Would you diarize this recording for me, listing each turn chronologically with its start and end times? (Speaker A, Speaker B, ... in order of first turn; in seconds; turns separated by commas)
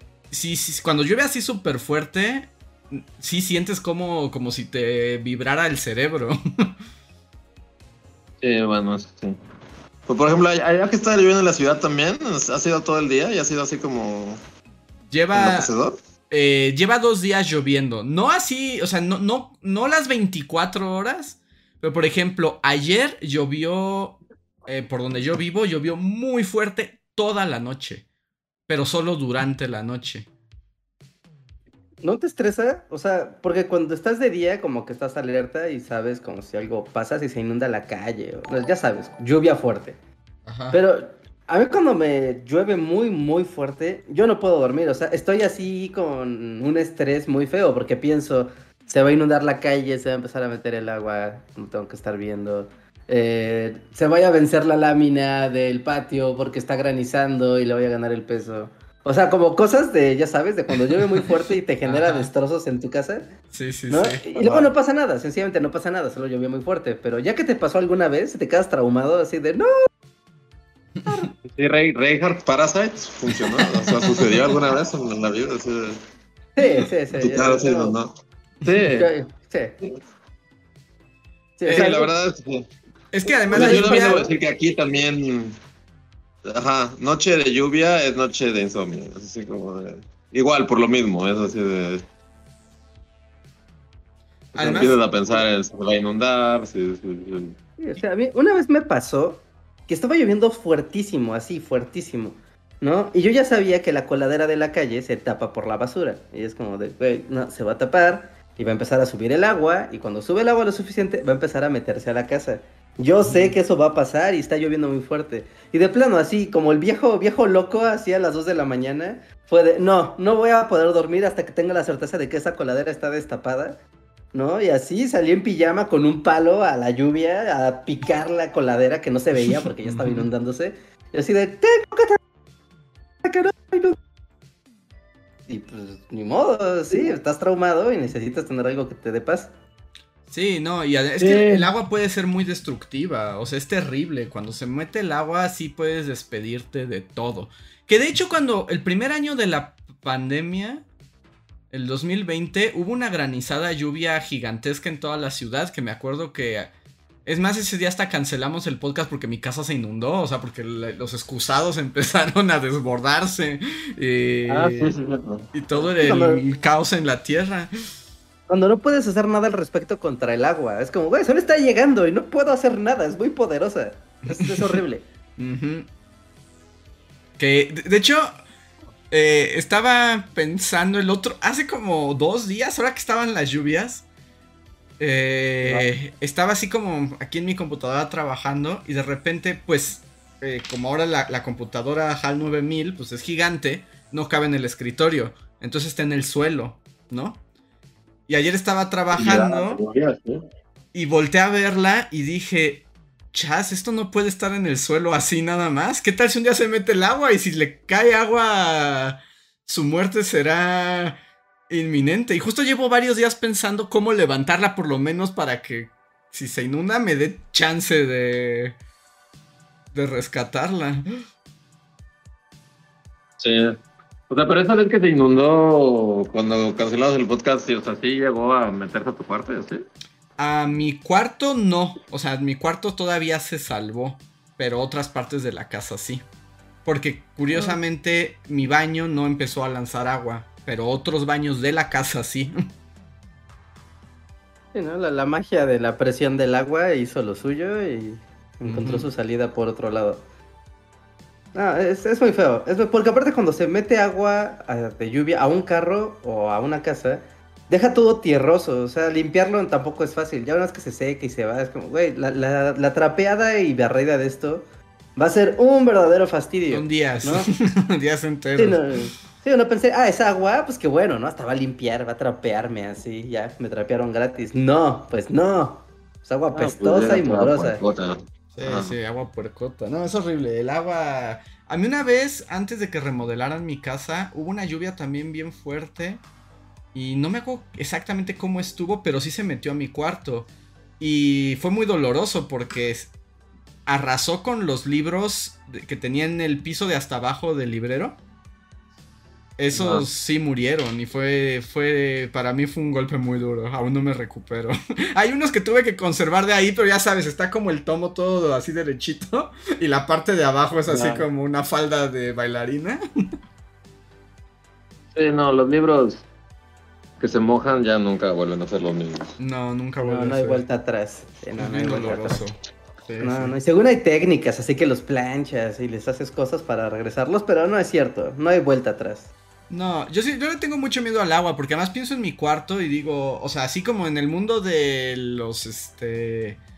Speaker A: 0.3-6.8, Speaker B: 8.4-9.4, Speaker B: 10.1-14.4, Speaker A: 15.1-15.7, Speaker B: 15.3-16.0, Speaker A: 16.3-28.1, Speaker A: 28.7-30.3, Speaker C: 32.0-40.0, Speaker A: 40.5-40.8, Speaker C: 40.7-63.3, Speaker A: 61.9-62.3, Speaker A: 63.5-64.7, Speaker C: 63.9-69.7, Speaker A: 71.0-71.3, Speaker C: 71.1-71.3, Speaker B: 71.4-76.0, Speaker A: 73.6-74.5, Speaker C: 76.6-78.0, Speaker B: 77.1-78.1, Speaker B: 78.6-79.1, Speaker C: 78.9-79.8, Speaker C: 81.6-82.1, Speaker B: 81.7-82.7, Speaker A: 83.1-84.3, Speaker B: 83.5-85.6, Speaker C: 83.5-84.3, Speaker B: 86.5-92.1, Speaker A: 94.5-95.0, Speaker B: 94.6-97.6, Speaker C: 97.8-123.8, Speaker C: 124.3-132.2, Speaker A: 129.8-130.3, Speaker C: 133.2-134.0, Speaker C: 135.5-139.5, Speaker A: 140.3-150.9, Speaker B: 141.2-141.7, Speaker A: 151.7-156.7, Speaker A: 157.3-164.9, Speaker B: 164.5-165.5, Speaker A: 165.5-167.7, Speaker C: 165.8-166.4, Speaker C: 168.5-175.0, Speaker A: 174.3-174.8, Speaker A: 175.4-175.9, Speaker A: 177.4-178.3, Speaker A: 179.1-184.1, Speaker A: 185.0-197.4, Speaker A: 198.3-199.8, Speaker B: 199.1-200.4, Speaker A: 200.9-211.2, Speaker A: 211.7-218.8, Speaker A: 219.9-221.1, Speaker B: 223.4-229.8, Speaker A: 230.4-236.2, Speaker A: 236.8-242.6, Speaker C: 237.5-237.8, Speaker C: 244.7-250.2, Speaker A: 248.7-249.1, Speaker C: 251.5-264.7, Speaker C: 265.2-267.5, Speaker A: 266.7-268.8, Speaker C: 268.6-277.8, Speaker B: 276.5-278.9, Speaker A: 278.6-286.2, Speaker A: 286.9-293.1, Speaker A: 293.9-298.2, Speaker A: 299.6-313.0, Speaker B: 310.9-311.2, Speaker B: 315.1-316.2, Speaker B: 317.2-319.4, Speaker A: 319.4-320.6, Speaker C: 320.0-322.4, Speaker A: 321.6-323.6, Speaker C: 323.2-329.3, Speaker A: 329.7-336.6